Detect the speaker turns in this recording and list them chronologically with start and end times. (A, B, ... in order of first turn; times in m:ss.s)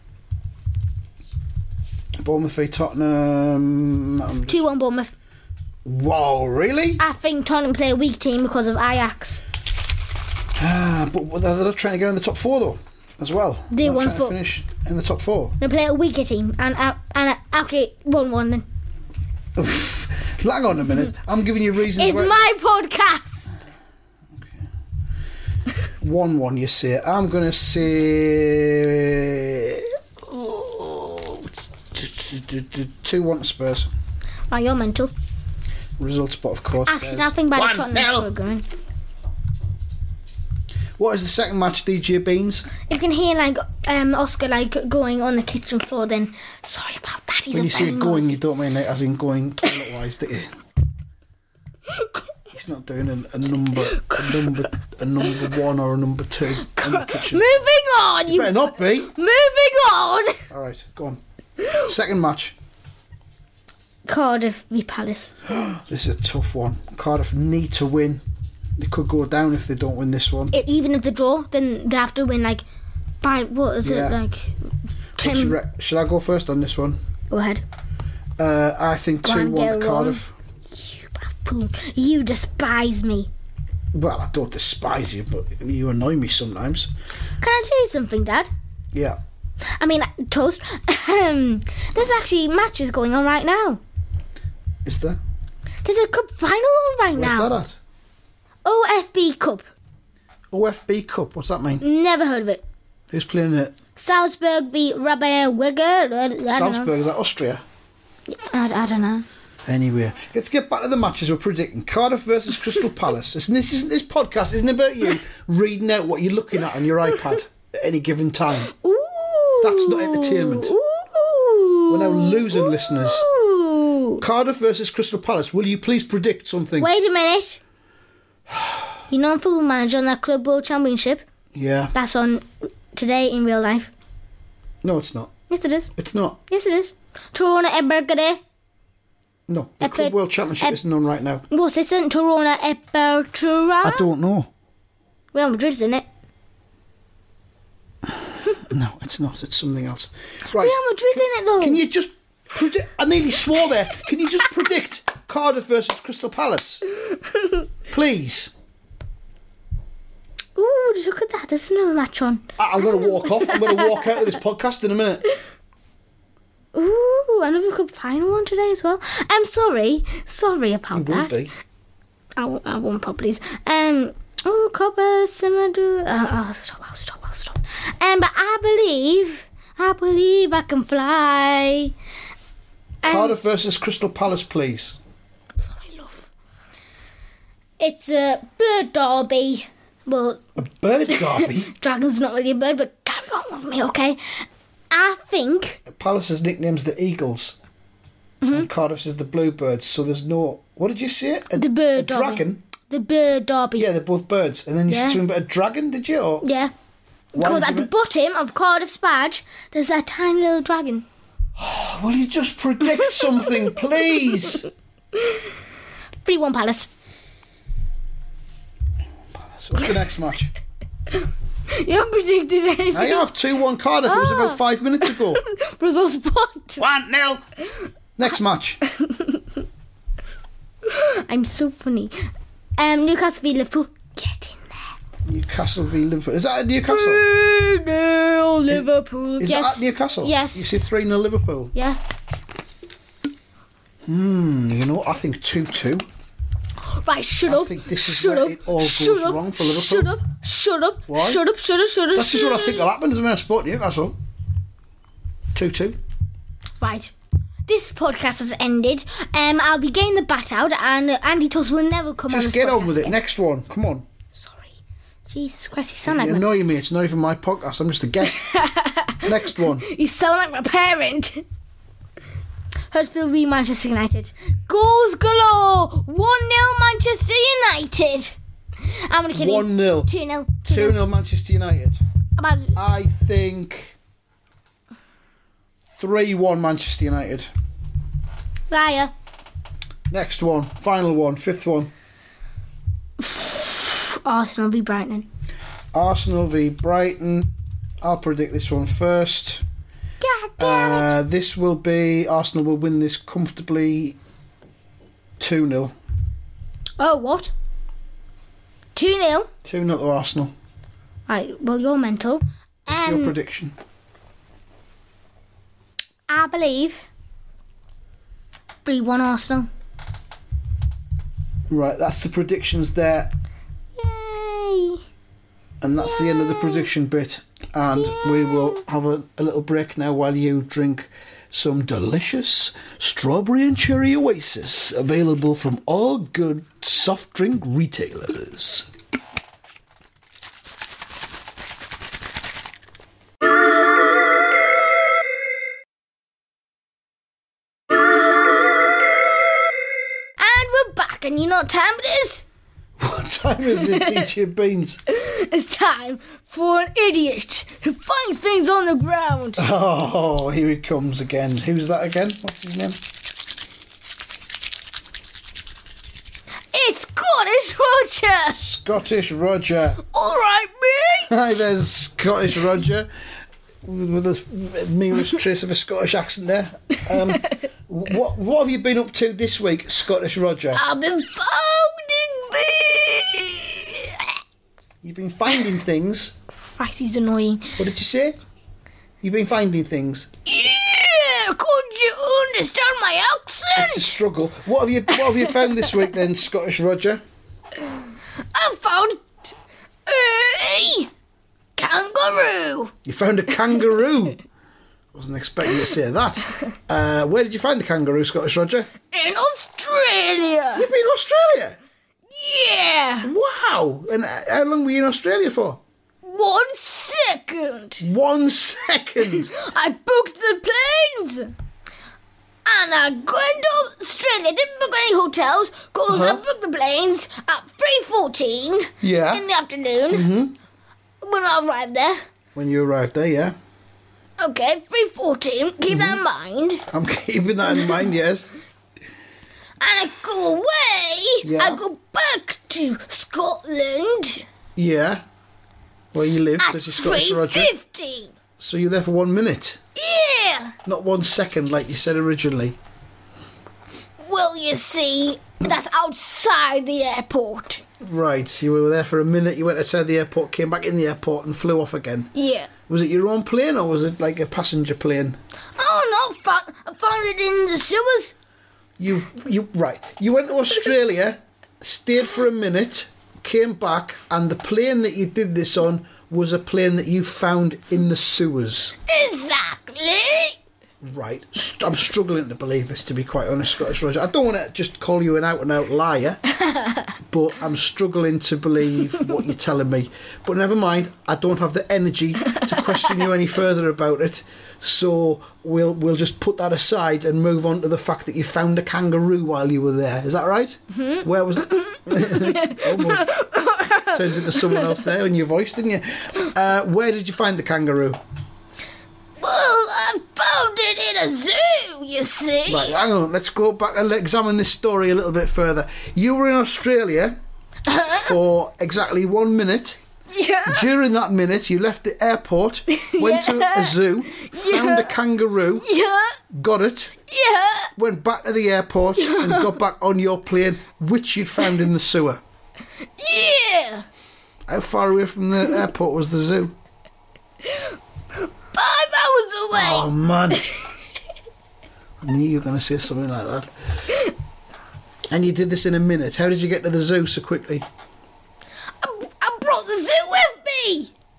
0:02.2-0:04.6 A
0:04.5-0:05.1 B
0:05.8-0:07.0 A
0:07.0-0:09.4 B
0:10.6-0:15.5 A
0:13.7-0:14.4 B
0:15.6-0:18.6 B
0:19.6-0:22.4 A
0:21.9-0:23.5 B
0:24.4-0:24.6 A
0:26.0-0:33.9 A
0:34.5-0:35.1 B
0:36.0-0:38.3 A
0:36.8-0:38.6 B
0:41.0-0:42.7 A
0:42.9-0:48.4 B
0:47.5-0:50.5 A
0:51.9-0:52.2 B
0:52.5-0:57.6 A
0:53.7-0:54.7 B
0:55.2-0:55.5 B
0:56.6-1:00.4 B
0:58.3-0:59.1 A
1:00.5-1:01.2 A
1:01.7-1:02.5 A
1:04.0-1:05.3 B
1:05.4-1:08.2 A
1:08.8-1:10.5 A
1:10.5-1:12.6 B
1:13.2-1:14.6 B
1:13.8-1:14.2 A
1:15.2-1:15.6 B
1:15.2-1:17.0 A
1:17.3-1:17.6 B
1:18.4-1:20.3 A
1:19.2-1:20.2 B
1:20.7-1:23.3 B
1:23.9-1:26.9 A
1:27.4-1:28.5 B
1:28.9-1:29.2 A
1:29.7-1:33.8 B
1:34.8-1:35.2 A
1:35.8-1:37.6 B
1:37.1-1:37.8 A
1:38.6-1:39.6 B
1:40.5-1:41.8 A
1:41.8-1:42.6 B
1:43.1-1:43.8 A
1:44.0-1:46.9 B
1:46.5-1:47.6 A
1:48.3-1:49.2 B
1:49.6-1:58.7 A
1:57.1-1:57.4 B
1:58.5-2:04.2 B
1:59.6-2:00.7 A
2:01.9-2:03.3 A
2:04.2-2:06.9 A
2:06.8-2:07.6 B
2:09.1-2:11.2 B
2:11.5-2:11.9 A
2:11.9-2:13.9 B
2:14.8-2:15.3 A
2:15.5-2:15.9 B
2:16.0-2:16.4 A
2:16.5-2:18.4 B
2:19.5-2:21.4 A
2:19.8-2:20.8 B
2:21.5-2:24.0 B
2:23.8-2:24.5 A
2:25.3-2:26.0 B
2:28.1-2:30.8 A
2:30.5-2:31.8 B
2:31.6-2:36.8 A
2:37.2-2:37.6 B
2:37.9-2:38.5 A
2:40.6-2:42.4 B
2:42.6-2:45.2 A
2:43.2-2:44.2 B
2:46.7-2:51.4 B
2:50.9-2:51.5 A
2:52.4-3:01.9 B
3:03.0-3:03.4 B
3:03.0-3:05.0 A
3:05.6-3:06.3 B
3:07.8-3:10.4 B
3:10.6-3:11.7 A
3:11.1-3:15.8 B
3:15.9-3:17.6 A
3:18.4-3:18.7 B
3:18.5-3:22.6 A
3:21.5-3:23.9 B
3:23.8-3:26.4 A
3:24.9-3:25.2 B
3:26.4-3:26.7 B
3:27.3-3:31.0 B
3:27.3-3:27.9 A
3:31.6-3:34.6 A
3:32.9-3:33.7 B
3:35.1-3:35.5 B
3:36.2-3:36.9 B
3:39.3-3:40.5 A
3:41.1-3:43.3 B
3:42.9-3:45.4 A
3:44.0-3:46.8 B
3:46.8-3:47.4 A
3:48.2-3:48.8 A
3:48.9-3:49.4 B
3:50.8-3:52.2 B
3:52.8-3:55.0 B
3:55.2-3:57.2 A
3:56.8-4:00.7 B
3:59.4-4:01.7 A
4:01.7-4:02.0 B
4:04.1-4:06.1 A
4:06.9-4:12.9 B
4:07.4-4:10.1 A
4:11.1-4:11.4 A
4:12.1-4:14.2 A
4:15.5-4:16.0 A
4:16.8-4:17.1 B
4:17.7-4:23.2 B
4:22.3-4:24.0 A
4:24.3-4:24.7 B
4:25.3-4:26.4 B
4:26.0-4:28.5 A
4:28.2-4:31.4 B
4:29.2-4:29.8 A
4:32.9-4:41.0 B
4:39.3-4:40.1 A
4:40.6-4:42.0 A
4:42.4-4:42.8 B
4:42.7-4:43.9 A
4:46.0-4:47.5 A
4:48.7-4:49.1 B
4:50.1-4:51.9 A
4:53.2-4:55.3 B
4:55.9-4:57.5 A
4:58.0-4:59.6 A
5:00.2-5:01.2 B
5:00.6-5:04.2 A
5:05.4-5:05.9 A
5:07.0-5:07.5 B
5:08.9-5:09.5 B
5:09.6-5:10.5 A
5:11.3-5:13.3 B
5:12.9-5:13.8 A
5:16.3-5:17.0 B
5:18.8-5:19.7 B
5:21.7-5:23.3 A
5:24.0-5:25.0 B
5:25.8-5:38.9 A
5:26.0-5:26.9 B
5:27.9-5:28.8 B
5:50.4-5:52.4 B
5:53.0-5:55.0 A
5:53.7-5:54.3 B
5:55.1-5:59.7 B
5:59.6-6:03.0 A
6:06.7-6:08.6 B
6:08.5-6:10.0 A
6:10.0-6:11.6 B
6:11.3-6:13.1 A
6:13.8-6:20.8 A
6:17.1-6:17.6 B
6:20.7-6:24.3 B
6:25.0-6:26.3 A
6:26.6-6:27.8 B
6:27.8-6:28.4 A
6:29.2-6:30.3 A
6:30.4-6:34.1 B
6:33.7-6:37.2 A
6:35.2-6:35.7 B
6:38.5-6:39.5 B
6:40.1-6:41.1 B
6:41.8-6:42.9 B
6:43.0-6:44.4 A
6:45.1-6:48.9 A
6:49.1-6:50.9 B
6:50.7-6:51.8 A
6:52.3-6:53.3 B
6:53.2-6:55.8 A
6:56.2-6:58.0 B
6:58.0-6:59.5 A
6:59.2-7:01.5 B
7:02.6-7:10.3 B
7:06.1-7:06.4 A
7:09.0-7:09.4 A
7:10.1-7:10.6 A
7:11.2-7:12.2 B
7:12.5-7:13.6 A
7:14.4-7:16.8 B
7:15.9-7:16.2 A
7:16.9-7:18.5 A
7:19.8-7:24.4 B
7:21.4-7:21.8 A
7:24.8-7:25.2 A
7:26.1-7:27.7 A
7:26.6-7:28.3 B
7:28.6-7:29.8 A
7:30.0-7:30.8 B
7:30.8-7:32.8 A
7:34.2-7:37.8 B
7:38.0-7:42.3 A
7:42.3-7:42.7 B
7:42.9-7:45.4 A
7:45.8-7:48.3 B
7:49.0-7:59.0 A
7:59.0-8:00.6 B
8:01.0-8:06.4 A
8:06.6-8:07.0 B
8:07.2-8:23.4 A
8:12.5-8:13.2 B
8:21.0-8:21.2 B
8:21.8-8:25.0 B
8:24.1-8:28.2 A
8:29.4-8:33.0 B
8:32.7-8:37.4 A
8:37.9-8:38.3 B
8:38.1-8:40.0 A
8:40.3-8:40.9 B
8:40.6-8:45.8 A
8:42.9-8:45.2 B
8:45.8-8:46.4 B
8:46.5-8:47.1 A
8:47.3-8:47.9 B
8:48.0-8:52.4 A
8:49.2-8:49.8 B
8:53.2-8:54.0 B
8:54.7-8:56.7 A
8:58.7-9:00.7 B
8:59.7-9:00.6 A
9:02.2-9:03.7 A
9:05.3-9:07.8 A
9:09.0-9:11.1 B